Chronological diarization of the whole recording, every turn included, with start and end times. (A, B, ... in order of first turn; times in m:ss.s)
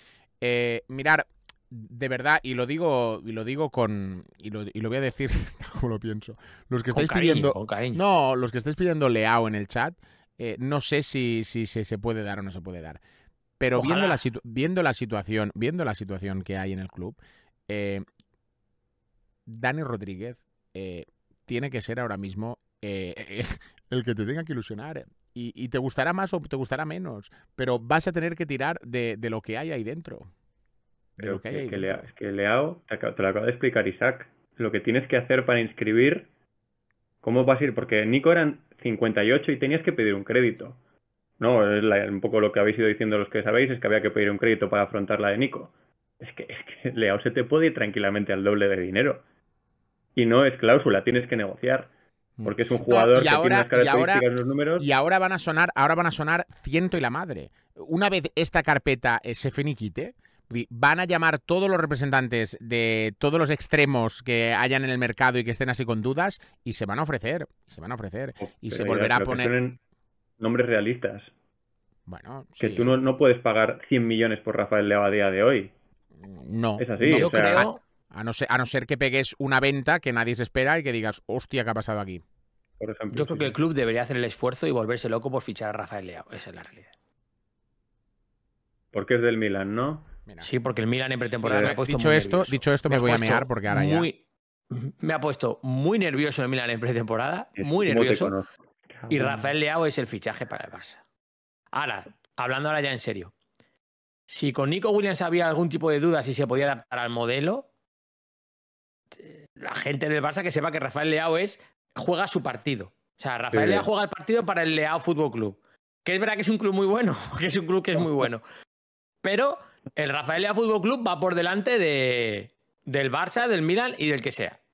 0:00.4-0:13.0 A
0:06.9-0:08.0 B
0:13.6-0:18.0 A
0:13.8-0:14.2 B
0:19.4-0:30.3 A
0:31.2-0:32.1 A
0:31.2-0:36.3 C
0:37.2-0:40.8 C
0:41.4-0:49.2 C
0:50.2-0:51.9 C
0:52.4-0:54.2 A
0:52.4-0:54.8 C
0:54.8-1:09.5 A
1:08.6-1:09.8 C
1:10.4-1:11.3 C
1:12.1-1:13.0 A
1:12.6-1:15.7 C
1:16.2-1:22.2 A
1:16.8-1:17.7 C
1:17.0-1:17.8 B
1:22.8-1:23.6 C
1:23.1-1:26.9 B
1:28.9-1:30.1 C
1:30.4-1:34.2 B
1:31.4-1:34.1 A
1:31.5-1:31.8 C
1:34.7-1:38.3 B
1:37.6-1:39.5 C
1:39.1-1:41.0 B
1:41.7-1:43.3 B
1:44.3-1:47.6 B
1:49.2-1:58.4 B
1:53.5-1:53.9 C
1:59.2-2:04.6 B